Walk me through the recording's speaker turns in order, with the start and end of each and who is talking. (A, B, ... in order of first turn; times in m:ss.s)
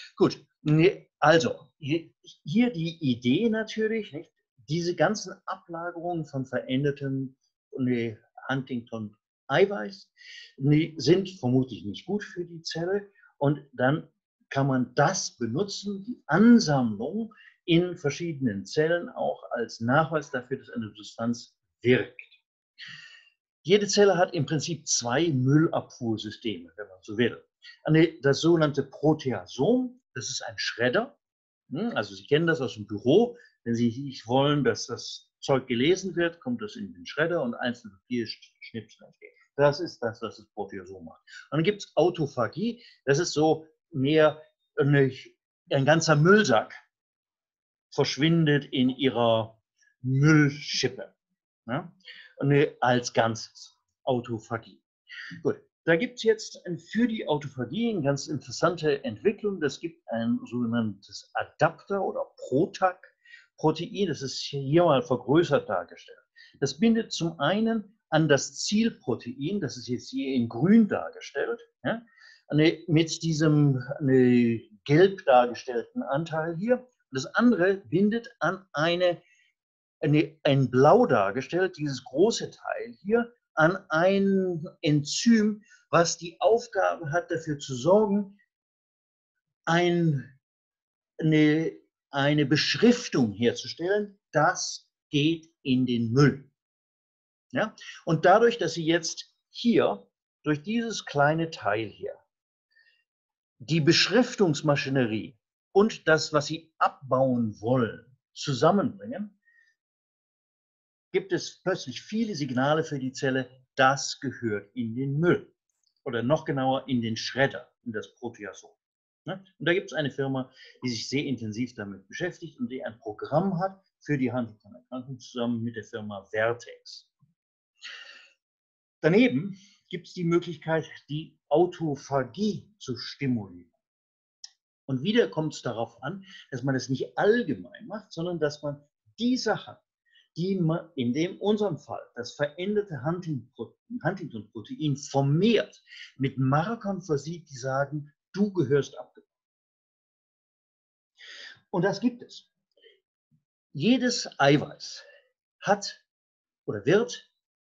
0:00.2-0:22.4 A
0:23.6-0:31.1 A
0:31.7-0:46.8 A
0:47.9-0:51.1 A
0:51.7-0:54.8 A
0:55.4-1:19.2 A
1:20.0-1:28.4 A
1:29.7-1:30.3 A
1:31.2-1:36.5 A
1:37.5-1:42.2 A
1:43.6-1:49.3 A
1:51.1-1:55.5 A
1:56.0-2:07.1 A
2:09.0-2:13.7 A
2:14.9-2:19.8 A
2:20.3-2:29.2 A
2:31.7-2:32.5 A
2:33.7-2:35.0 A
2:35.6-2:36.0 A
2:36.6-2:37.3 A